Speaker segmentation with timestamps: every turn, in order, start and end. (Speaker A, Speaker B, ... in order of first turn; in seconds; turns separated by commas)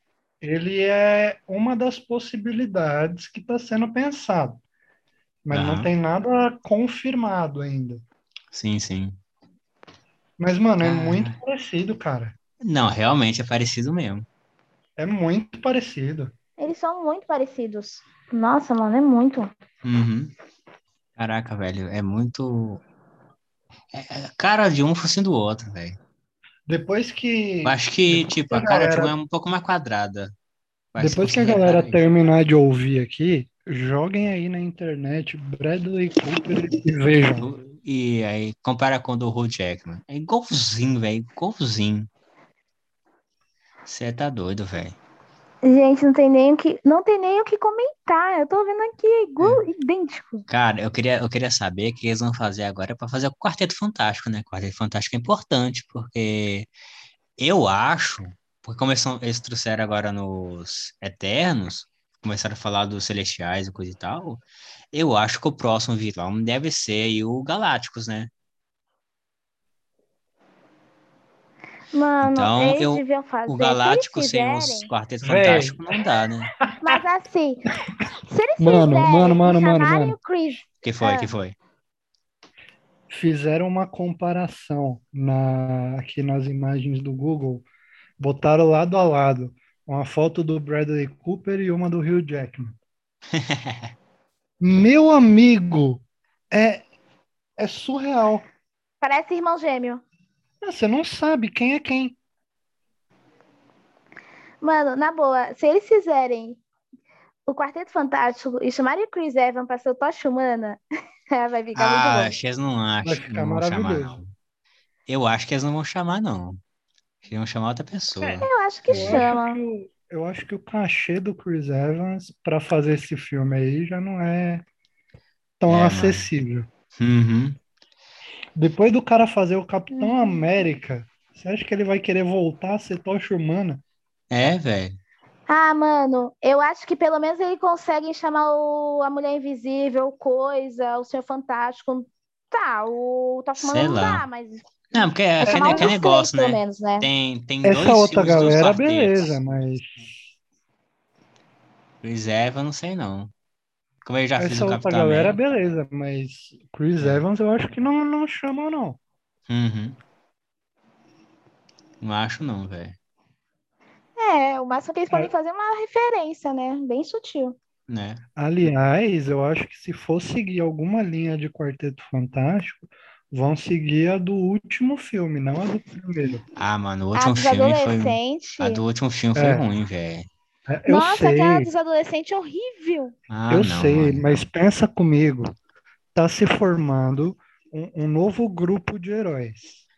Speaker A: 0.4-4.6, Speaker A: 5.5-8.0, Speaker B: 5.5-5.9, Speaker B: 8.5-9.2, Speaker A: 10.4-12.4, Speaker B: 10.8-11.4, Speaker B: 12.6-14.3, Speaker A: 15.0-16.3, Speaker C: 16.6-19.5, Speaker B: 19.8-20.3, Speaker B: 21.2-22.8, Speaker B: 23.9-26.0, Speaker A: 26.7-29.1, Speaker B: 27.6-30.3, Speaker B: 30.9-32.0, Speaker A: 31.0-37.5, Speaker B: 37.4-42.1, Speaker B: 43.9-45.0, Speaker C: 45.6-50.5, Speaker B: 50.5-56.7, Speaker B: 57.4-68.3, Speaker C: 71.9-74.9, Speaker B: 72.2-76.5, Speaker A: 75.2-76.0, Speaker A: 76.6-77.0, Speaker C: 76.8-77.7, Speaker C: 78.3-81.3, Speaker A: 78.6-80.2, Speaker B: 80.8-81.6, Speaker A: 83.1-87.7, Speaker A: 88.2-92.8, Speaker B: 93.3-93.9, Speaker A: 94.6-96.8, Speaker A: 97.6-98.5, Speaker C: 99.0-100.0, Speaker A: 100.6-102.2, Speaker C: 104.6-106.6, Speaker C: 107.5-110.8, Speaker C: 111.3-112.3, Speaker B: 111.8-114.3, Speaker A: 113.0-114.2, Speaker B: 115.1-116.6, Speaker B: 117.2-119.3, Speaker C: 118.2-119.6, Speaker A: 118.9-124.6, Speaker A: 125.6-126.7, Speaker B: 125.7-126.3, Speaker B: 127.0-127.6, Speaker A: 128.6-133.8, Speaker C: 129.9-130.4, Speaker B: 134.3-135.0, Speaker C: 135.5-147.1, Speaker B: 143.6-144.2, Speaker B: 144.9-149.4, Speaker A: 145.4-146.0, Speaker A: 147.6-150.3, Speaker B: 152.0-153.3, Speaker B: 154.0-155.4, Speaker A: 154.4-159.0, Speaker B: 157.0-157.2, Speaker B: 159.5-160.0, Speaker B: 162.0-163.0, Speaker C: 164.2-167.6, Speaker B: 167.9-168.2, Speaker A: 168.4-176.4, Speaker B: 176.6-180.3, Speaker C: 177.2-178.8, Speaker A: 179.3-179.6, Speaker A: 180.7-181.7, Speaker C: 180.9-183.2, Speaker B: 183.3-184.2, Speaker A: 183.5-185.5, Speaker A: 186.2-189.8